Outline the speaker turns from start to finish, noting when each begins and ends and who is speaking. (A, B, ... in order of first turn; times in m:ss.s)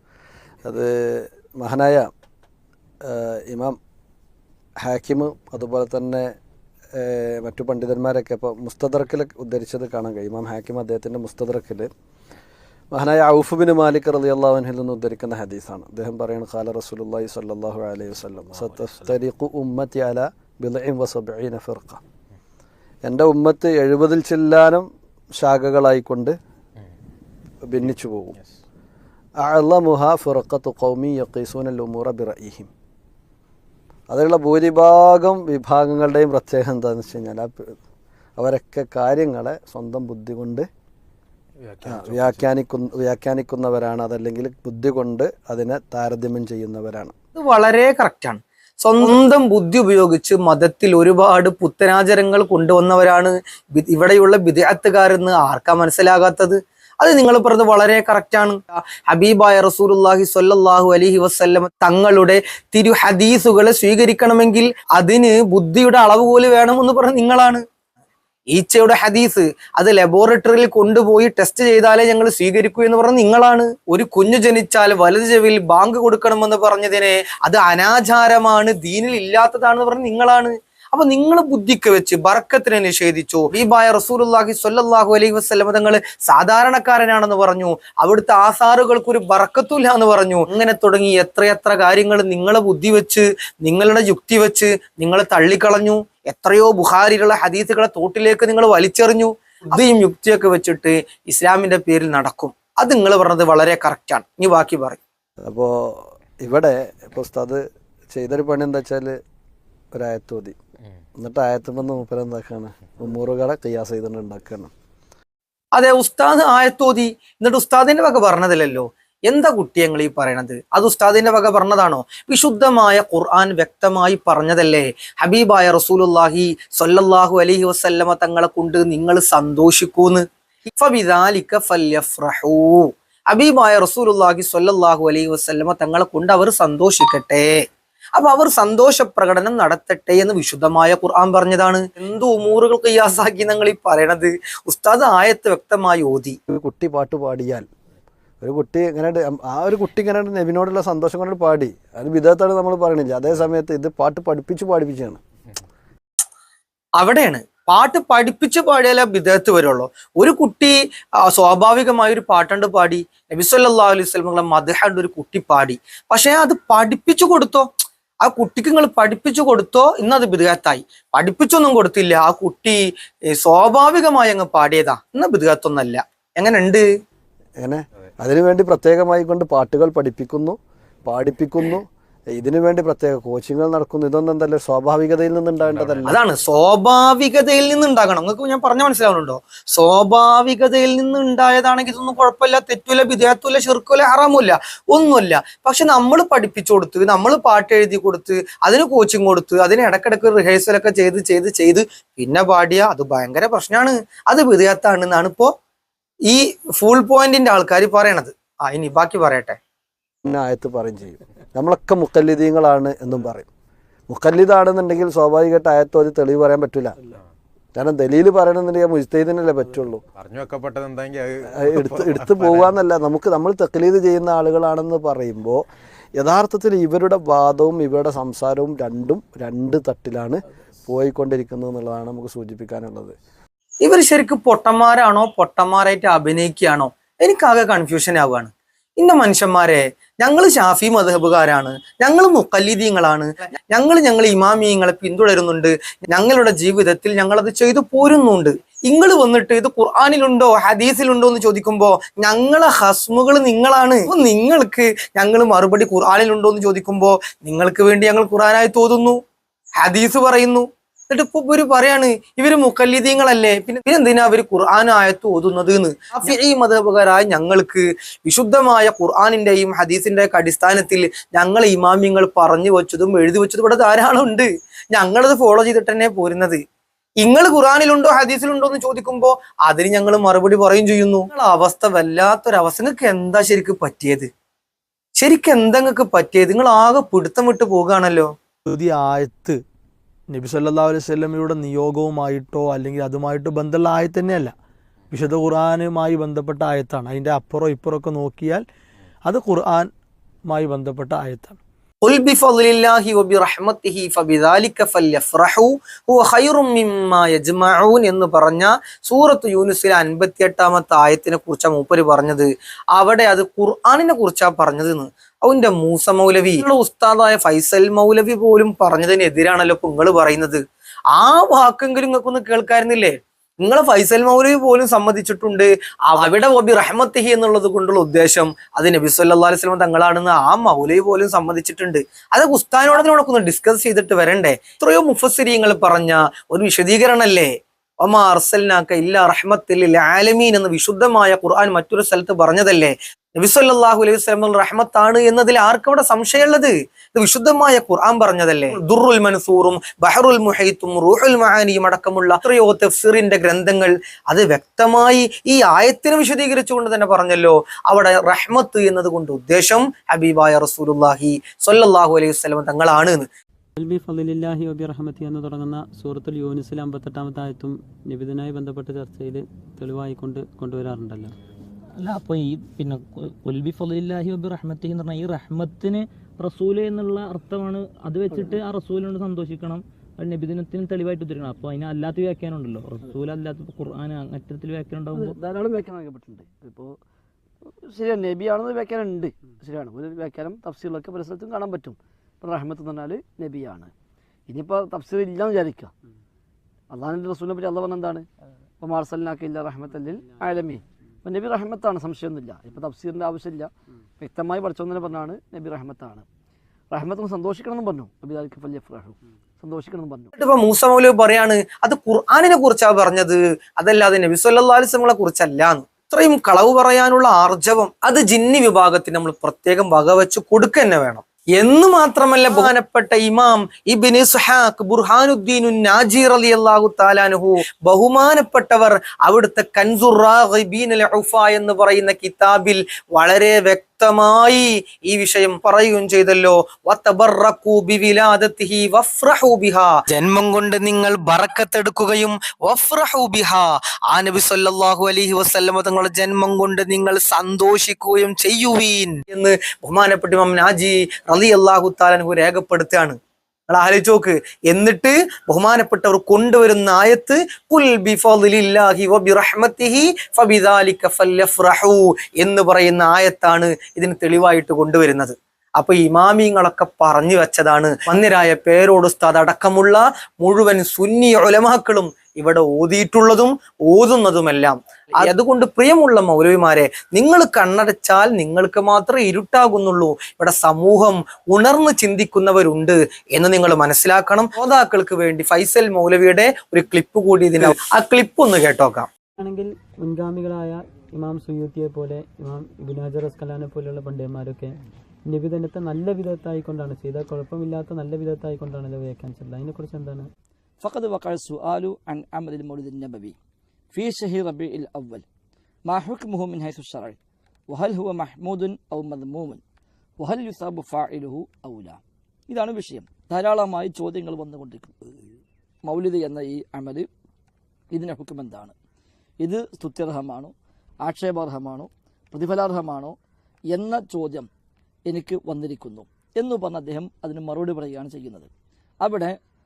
0:00.6-0:02.1 A
0:03.0-0:03.7 A
0:04.8-0:06.3 A
0:07.0-0:11.9 A
0:12.9-0:22.0 A
0:23.0-0:24.8 A
0:25.4-0:26.3 A
0:27.7-0:28.3 A
0:27.8-0:28.5 B
0:29.4-0:32.7 A
0:34.1-0:37.7 A
0:38.4-0:40.6 A
0:41.6-0:42.5 B
0:41.9-0:47.1 A
0:47.4-1:07.6 C
1:08.5-1:45.0 C
1:45.4-1:47.6 A
1:48.1-1:49.1 A
1:49.9-1:50.5 A
1:51.2-1:54.7 A
1:55.7-2:17.6 C
2:18.2-2:26.4 C
2:26.5-2:27.6 A
2:28.4-2:35.2 A
2:37.0-2:40.7 C
2:41.3-2:47.7 C
2:48.2-2:52.8 C
2:53.3-2:56.8 C
2:57.6-3:06.2 A
3:05.6-3:06.1 B
3:06.0-3:25.5 C
3:26.3-3:29.6 C
3:30.2-3:33.5 A
3:34.1-3:36.9 A
3:37.7-3:40.0 A
3:40.2-3:42.7 B
3:41.6-3:45.6 A
3:46.2-3:53.1 A
3:53.8-4:19.2 C
4:19.8-4:36.6 C
4:37.2-4:44.3 C
4:45.2-4:48.3 C
4:48.7-4:49.6 D
4:50.3-4:54.5 D
4:55.1-4:58.6 D
4:59.2-4:59.9 D
5:00.5-5:01.6 D
5:02.0-5:20.6 C
5:21.1-5:37.5 C
5:38.0-6:03.3 C
6:03.8-6:11.3 E
6:12.0-6:25.4 F
6:25.1-6:27.0 G
6:27.8-6:33.9 G
6:34.5-6:35.9 G
6:36.9-6:38.2 G
6:38.8-6:46.2 G
6:46.9-6:50.3 G
6:50.4-7:33.2 C
7:33.7-8:09.1 C
8:09.4-8:14.8 E
8:15.3-8:20.3 E
8:20.8-8:23.4 G
8:23.9-8:25.2 G
8:25.9-8:27.2 G
8:27.7-8:29.6 G
8:30.2-8:35.2 G
8:35.8-8:37.1 G
8:37.9-8:38.7 G
8:39.4-8:43.1 G
8:43.7-8:44.5 G
8:45.1-8:48.5 G
8:49.0-8:49.4 G